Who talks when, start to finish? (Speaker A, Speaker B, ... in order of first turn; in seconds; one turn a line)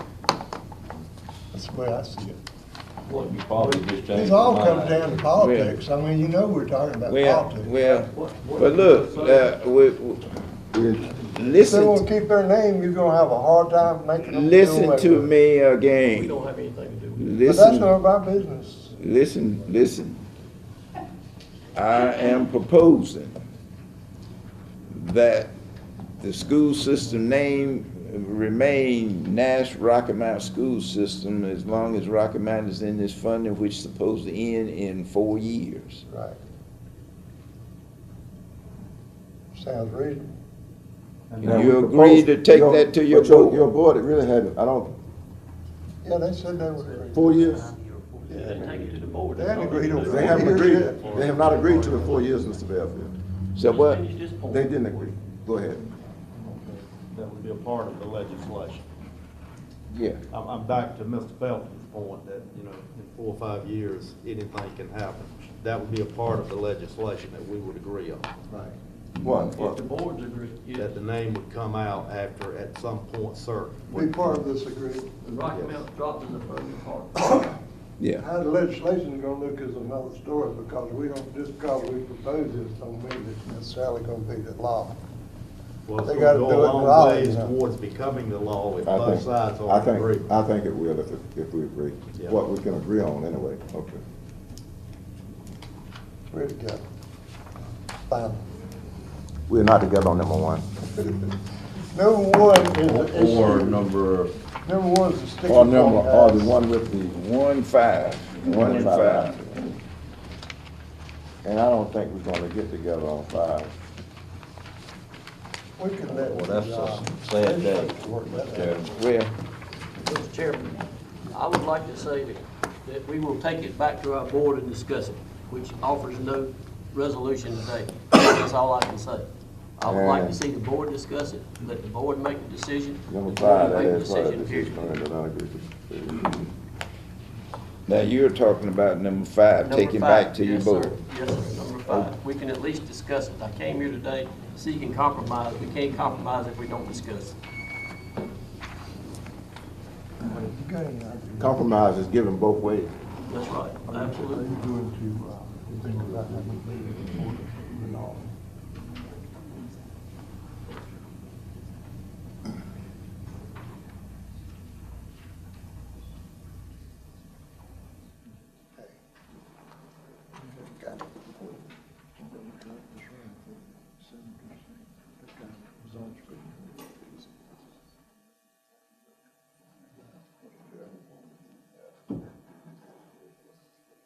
Speaker A: 1.5-2.4
Speaker B: 3.1-5.2
Speaker C: 3.1-3.8
Speaker A: 4.1-7.7
Speaker D: 5.3-5.8
Speaker D: 7.0-10.2
Speaker C: 7.8-9.5
Speaker E: 10.7-11.2
Speaker D: 11.2-12.0
Speaker A: 11.6-15.3
Speaker D: 14.2-16.4
Speaker C: 16.1-17.3
Speaker D: 17.2-18.0
Speaker A: 17.4-19.0
Speaker D: 19.0-20.2
Speaker D: 21.7-23.4
Speaker D: 24.9-25.5
Speaker D: 26.2-36.0
Speaker A: 36.1-36.4
Speaker A: 39.5-40.3
Speaker F: 41.3-41.8
Speaker D: 41.4-43.7
Speaker E: 41.5-44.9
Speaker A: 46.0-47.6
Speaker C: 47.0-52.7
Speaker E: 47.1-47.6
Speaker A: 48.3-51.1
Speaker F: 50.0-52.0
Speaker E: 50.0-53.1
Speaker D: 53.5-54.0
Speaker C: 53.6-55.1
Speaker E: 54.5-55.8
Speaker F: 57.0-58.9
Speaker D: 59.9-60.2
Speaker F: 60.3-68.3
Speaker A: 68.5-68.7
Speaker E: 69.2-69.8
Speaker C: 69.5-71.0
Speaker F: 70.7-74.4
Speaker A: 73.9-75.2
Speaker C: 75.2-77.5
Speaker F: 75.5-75.8
Speaker D: 78.0-78.2
Speaker A: 78.2-85.0
Speaker F: 85.9-90.3
Speaker A: 86.0-87.5
Speaker E: 88.8-94.0
Speaker A: 96.3-96.8
Speaker A: 98.1-98.4
Speaker E: 99.5-100.6
Speaker A: 101.0-101.2
Speaker A: 101.9-103.9
Speaker B: 102.8-104.3
Speaker A: 104.6-106.6
Speaker E: 105.5-107.1
Speaker D: 107.1-109.5
Speaker E: 108.5-109.4
Speaker B: 108.6-108.9
Speaker E: 111.4-113.7
Speaker A: 115.8-118.9
Speaker B: 116.0-118.9
Speaker D: 118.8-119.3
Speaker C: 120.0-120.8
Speaker C: 121.3-129.3
Speaker C: 129.8-135.0
Speaker E: 129.8-130.4
Speaker E: 133.1-136.4
Speaker D: 137.9-141.0
Speaker C: 139.6-147.3
Speaker A: 150.2-151.7
Speaker E: 151.4-152.9
Speaker C: 153.3-154.5
Speaker A: 153.9-158.3
Speaker A: 170.4-171.6
Speaker A: 172.2-177.3